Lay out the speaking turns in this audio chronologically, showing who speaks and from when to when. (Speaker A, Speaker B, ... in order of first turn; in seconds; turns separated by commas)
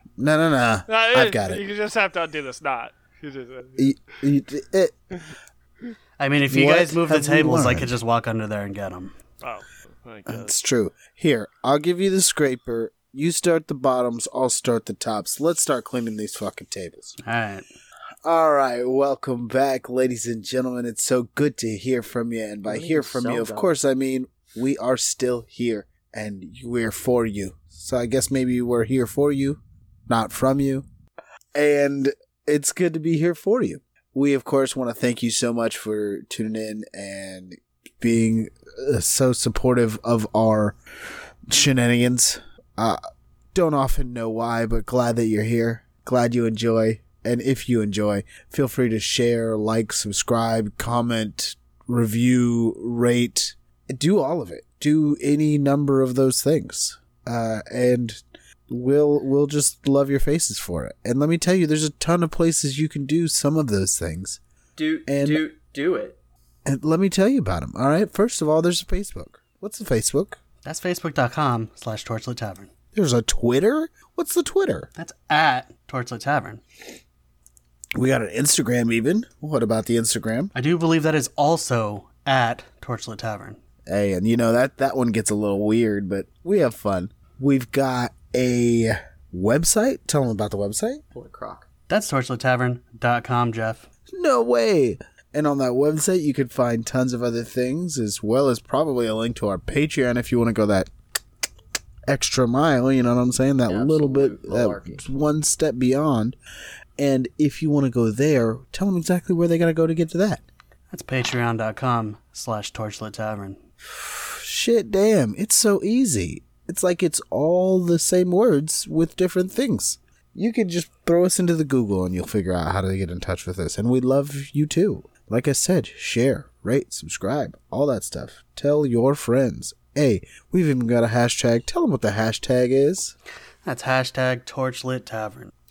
Speaker A: 0.2-1.6, Speaker B: 0.9-3.9, Speaker A: 3.8-5.0, Speaker C: 6.2-9.1, Speaker A: 6.5-7.9, Speaker B: 9.4-10.6, Speaker A: 10.3-17.1, Speaker C: 17.2-17.6, Speaker A: 18.2-30.9, Speaker D: 22.6-23.7, Speaker A: 31.5-40.8, Speaker A: 41.5-43.0, Speaker A: 43.5-64.4, Speaker D: 64.8-66.2, Speaker A: 65.1-65.4, Speaker A: 66.6-70.4, Speaker C: 70.6-72.7, Speaker A: 72.9-74.9, Speaker C: 75.0-76.6, Speaker A: 77.9-80.5, Speaker C: 80.5-83.6, Speaker A: 83.8-91.0, Speaker D: 91.1-91.7, Speaker C: 91.9-93.8, Speaker A: 94.1-100.9, Speaker A: 102.1-106.3, Speaker D: 103.7-105.0, Speaker A: 107.0-110.4, Speaker C: 110.9-113.6, Speaker A: 113.9-133.1, Speaker C: 133.6-135.5